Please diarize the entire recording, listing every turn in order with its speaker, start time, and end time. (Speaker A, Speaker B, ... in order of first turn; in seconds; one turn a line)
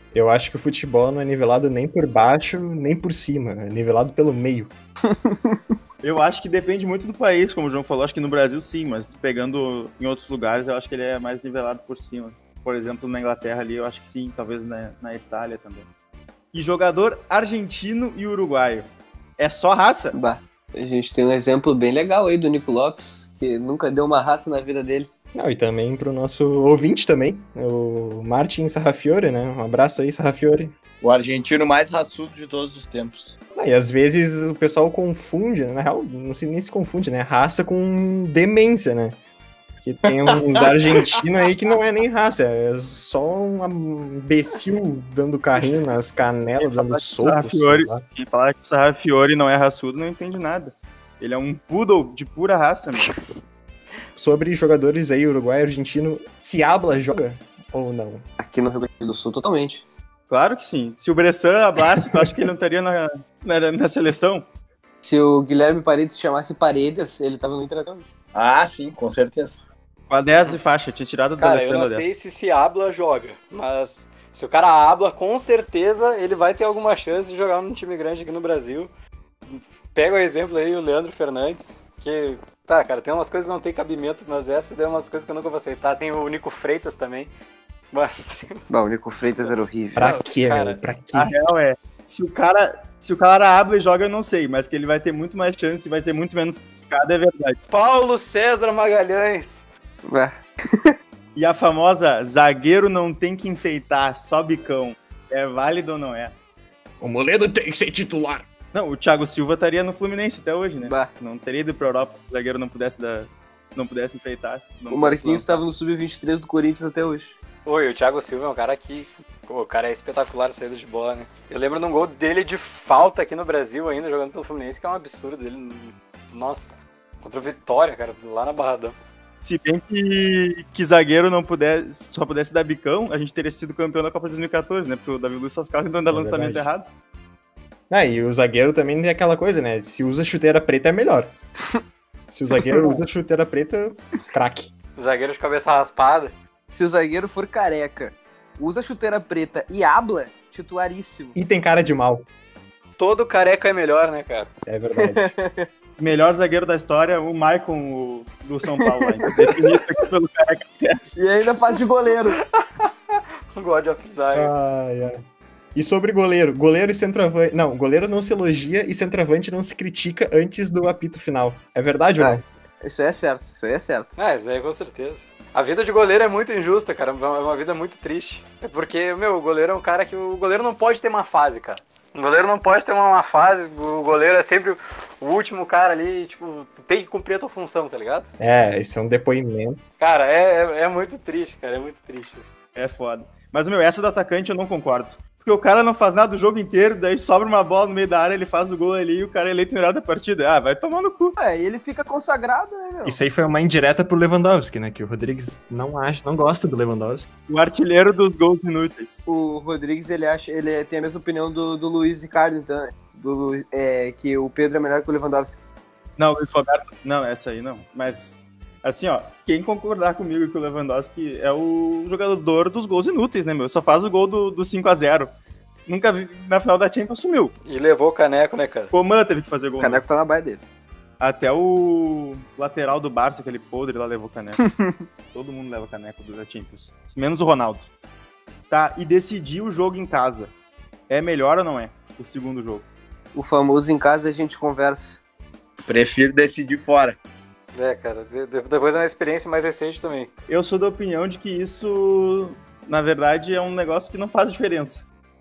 Speaker A: 0.1-4.7
Speaker B: 5.1-5.6
Speaker C: 6.0-15.9
Speaker C: 16.5-20.1
Speaker B: 20.1-25.1
Speaker A: 25.4-30.8
Speaker D: 31.0-33.4
Speaker A: 33.5-39.2
Speaker A: 39.8-48.0
Speaker C: 46.6-53.1
Speaker A: 54.2-58.3
Speaker B: 58.4-59.9
Speaker C: 60.3-64.5
Speaker B: 65.0-68.1
Speaker D: 68.3-69.6
Speaker C: 70.1-72.1
Speaker E: 71.4-78.9
Speaker E: 79.5-87.3
Speaker E: 87.9-88.7
Speaker B: 88.7-90.0
Speaker E: 89.4-90.8
Speaker A: 90.0-91.3
Speaker C: 91.1-97.6
Speaker E: 97.7-99.7
Speaker B: 100.0-100.9
Speaker C: 101.3-106.3
Speaker A: 107.0-108.5
Speaker C: 108.7-115.7
Speaker B: 114.9-117.3
Speaker E: 117.7-129.0
Speaker C: 129.4-136.9
Speaker A: 136.1-136.7
Speaker A: 137.9-141.3
Speaker A: 142.3-144.7
Speaker E: 145.0-146.3
Speaker B: 146.7-151.4
Speaker A: 151.4-152.3
Speaker E: 153.0-154.5
Speaker A: 154.7-155.3
Speaker B: 154.9-155.7
Speaker C: 156.0-161.1
Speaker B: 158.8-159.5
Speaker B: 161.2-162.4
Speaker E: 162.6-162.9
Speaker E: 163.5-164.5
Speaker A: 164.3-165.2
Speaker A: 165.8-172.4
Speaker B: 172.2-174.2
Speaker E: 174.2-188.3
Speaker A: 188.4-189.8
Speaker E: 190.0-192.4
Speaker C: 192.8-201.3
Speaker B: 201.4-203.2
Speaker A: 203.1-207.3
Speaker C: 207.5-209.2
Speaker B: 209.2-215.6
Speaker C: 216.2-225.3
Speaker C: 225.9-227.5
Speaker E: 227.7-228.9
Speaker C: 228.9-230.0
Speaker B: 229.8-230.6
Speaker C: 231.2-234.6
Speaker B: 234.6-235.0
Speaker C: 235.3-237.9
Speaker C: 238.7-240.5
Speaker C: 241.1-242.9
Speaker B: 243.3-245.2
Speaker D: 245.9-247.2
Speaker E: 247.8-250.3
Speaker C: 250.5-255.1